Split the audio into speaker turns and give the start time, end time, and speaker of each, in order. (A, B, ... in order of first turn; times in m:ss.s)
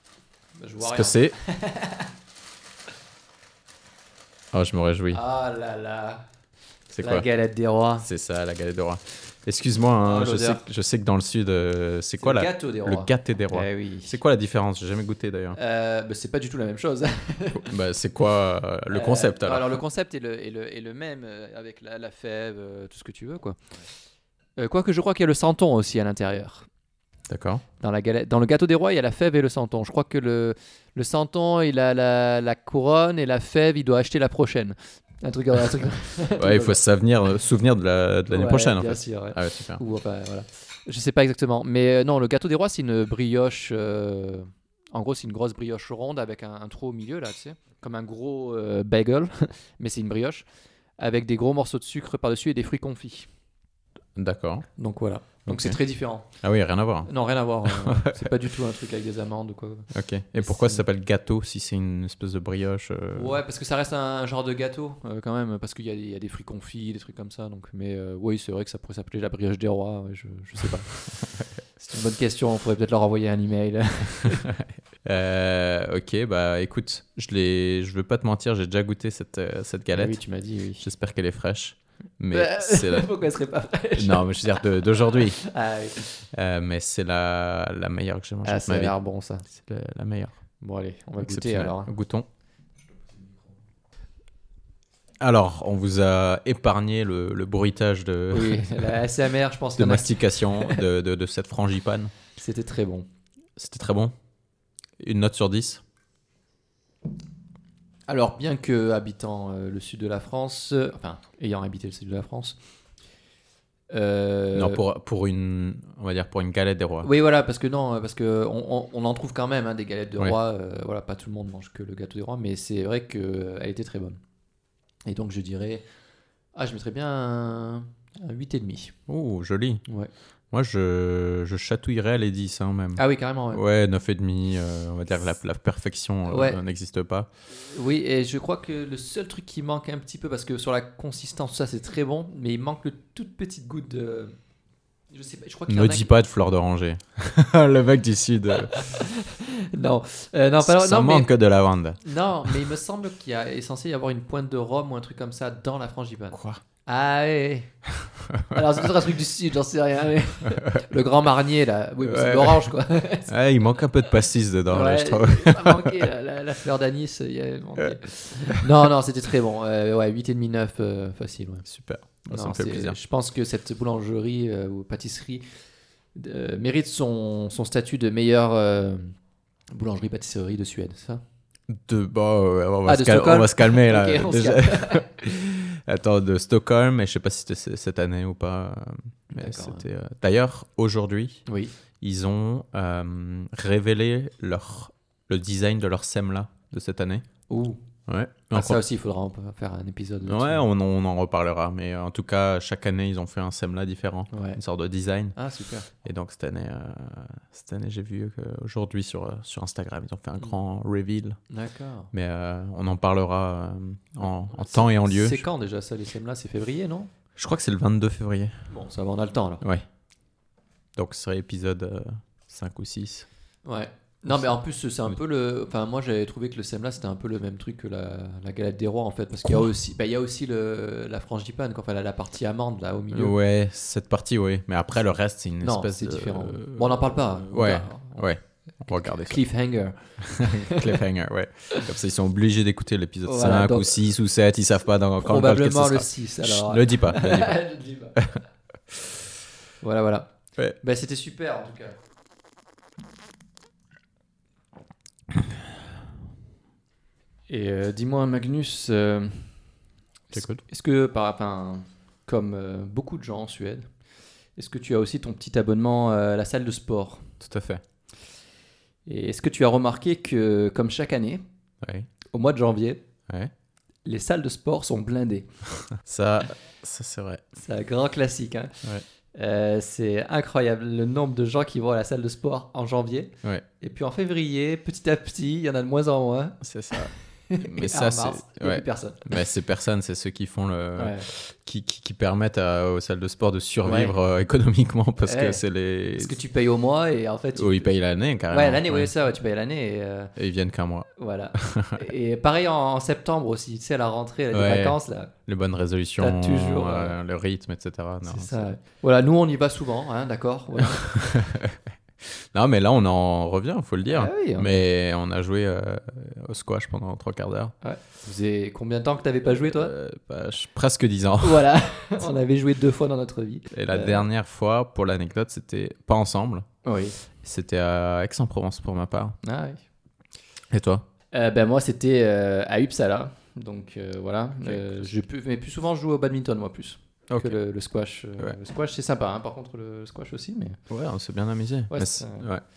0:00.6-0:02.1 A
0:00.8-0:01.3 B
0:04.5-0:05.2 B
0:05.1-0:06.3 A
0:06.9-0:07.2 B
0:07.0-0:08.0 A
0:08.0-0:15.6 B
0:10.0-0:10.6 A
0:12.2-0:14.1 A
0:15.5-0:17.7 A
0:17.5-0:19.8 B
0:18.9-0:23.6 A
0:24.6-0:26.7 A
0:27.3-0:27.6 B
0:27.8-0:36.8 A
0:36.4-0:39.8 B
0:38.3-0:50.4 A
0:51.0-0:53.3 A
0:54.2-0:54.7 B
0:54.8-0:56.3 A
0:55.4-0:55.8 B
0:56.4-0:57.1 B
0:57.1-1:00.8 A
0:57.6-0:58.3 B
0:59.9-1:03.4 B
1:03.1-1:10.9 A
1:11.2-1:11.5 B
1:11.8-1:14.4 A
1:14.2-1:20.2 B
1:19.9-1:20.8 A
1:20.8-1:23.2 B
1:22.3-1:26.0 A
1:24.0-1:25.4 B
1:26.3-1:28.9 B
1:28.4-1:29.4 A
1:29.5-1:30.4 B
1:30.6-1:31.9 A
1:31.2-1:32.3 B
1:33.0-1:33.4 A
1:35.2-1:39.0 B
1:38.3-1:40.8 A
1:39.8-1:42.1 B
1:42.4-1:43.1 A
1:43.6-1:44.1 B
1:45.0-1:45.8 B
1:48.1-1:52.6 A
1:53.9-1:54.8 A
1:54.5-1:57.1 B
1:57.0-2:04.2 A
2:05.0-2:05.8 A
2:06.5-2:08.9 A
2:09.1-2:09.8 B
2:10.5-2:17.3 B
2:13.0-2:13.6 A
2:16.3-2:16.6 A
2:17.6-2:24.4 A
2:25.1-2:26.1 A
2:25.7-2:29.0 B
2:28.5-2:31.3 A
2:30.6-2:32.6 B
2:32.0-2:37.7 A
2:36.3-2:36.6 B
2:38.0-2:38.6 B
2:38.5-2:43.3 A
2:40.5-2:40.8 B
2:42.0-2:42.7 B
2:43.2-2:46.0 B
2:44.7-2:51.6 A
2:48.4-2:48.6 B
2:51.6-2:53.0 B
2:52.3-2:55.4 A
2:56.1-2:59.1 A
2:59.7-3:01.2 A
3:01.7-3:11.4 B
3:02.8-3:05.0 A
3:09.3-3:09.8 A
3:11.5-3:11.7 A
3:12.0-3:17.3 B
3:17.5-3:17.8 A
3:18.1-3:18.8 B
3:18.5-3:20.6 A
3:20.2-3:25.4 B
3:24.3-3:24.6 A
3:25.4-3:25.9 A
3:26.0-3:31.4 B
3:31.5-3:32.1 A
3:32.1-3:35.4 B
3:34.5-3:37.1 A
3:37.4-3:38.7 B
3:38.7-3:39.6 A
3:41.0-3:43.3 B
3:43.6-3:53.3 A
3:53.1-3:59.4 B
3:55.6-3:58.3 A
3:58.9-4:01.0 A
4:00.2-4:07.6 B
4:03.2-4:04.0 A
4:05.2-4:08.2 A
4:08.2-4:08.4 B
4:09.8-4:12.0 A
4:17.5-4:19.6 A
4:20.3-4:23.9 A
4:20.3-4:20.6 B
4:24.6-4:27.3 A
4:27.4-4:27.8 B
4:29.0-4:31.4 A
4:31.8-4:32.1 B
4:32.3-4:33.0 A
4:34.0-4:35.5 A
4:36.0-4:37.5 B
4:37.6-4:49.4 A
4:46.6-4:56.3 B
4:51.0-4:51.3 A
4:53.8-4:54.1 A
4:55.2-4:57.9 A
4:57.6-4:59.1 B
4:58.5-5:00.3 A
5:00.4-5:02.0 B
5:01.2-5:05.3 A
5:04.5-5:08.7 B
5:06.2-5:07.2 A
5:08.2-5:11.0 A
5:10.8-5:17.7 B
5:14.1-5:14.8 A
5:17.8-5:19.9 A
5:19.6-5:21.7 B
5:21.4-5:24.2 A
5:23.7-5:26.7 B
5:26.8-5:27.2 A
5:27.4-5:29.4 B
5:29.4-5:29.8 A
5:30.7-5:31.0 B
5:31.3-5:40.8 A
5:34.6-5:35.1 B
5:37.3-5:37.6 B
5:40.9-5:42.6 B
5:41.9-5:42.5 A